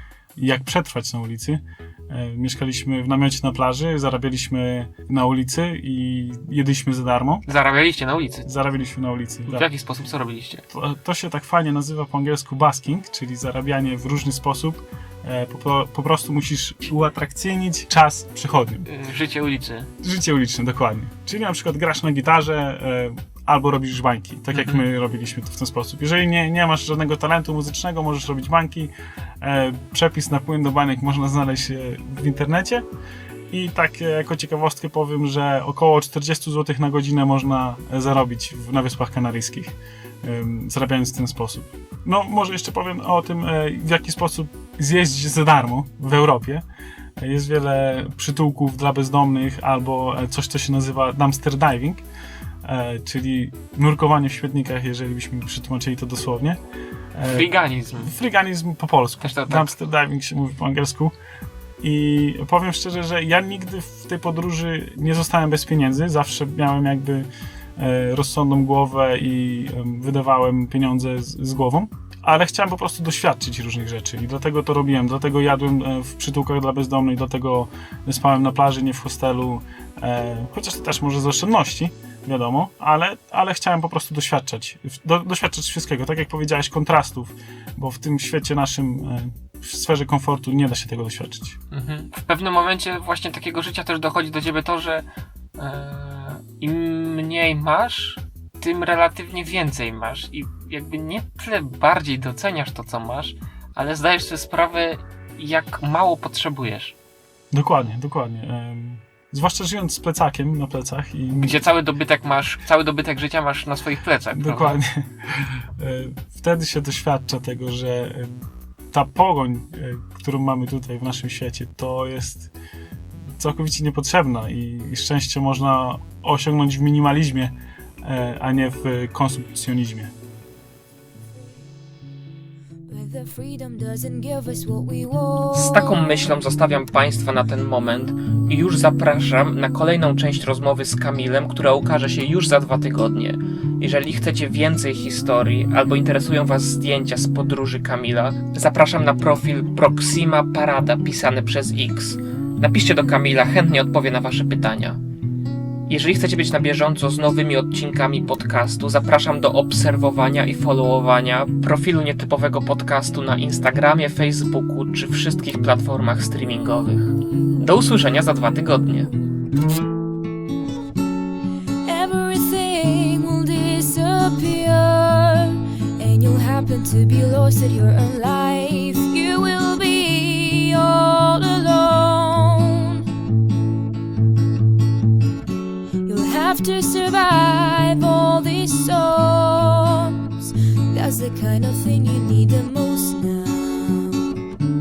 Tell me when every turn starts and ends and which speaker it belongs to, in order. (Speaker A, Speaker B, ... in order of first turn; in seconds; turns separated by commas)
Speaker A: 0.3-7.5, Speaker B: 7.5-8.4, Speaker A: 8.4-9.7, Speaker B: 9.5-10.6, Speaker A: 10.7-18.9, Speaker B: 18.9-19.9, Speaker A: 20.0-32.8, Speaker B: 24.5-24.8, Speaker A: 33.5-46.6, Speaker A: 47.2-52.0, Speaker A: 52.6-56.6, Speaker A: 57.1-61.1, Speaker B: 57.3-58.1, Speaker B: 59.2-59.7, Speaker A: 61.8-91.6, Speaker B: 91.7-106.9, Speaker A: 107.5-111.6, Speaker B: 111.3-114.8, Speaker A: 114.3-122.5, Speaker A: 123.3-130.1, Speaker C: 132.9-136.0, Speaker B: 135.5-155.0, Speaker B: 155.9-169.1, Speaker C: 171.8-183.1, Speaker C: 186.0-194.3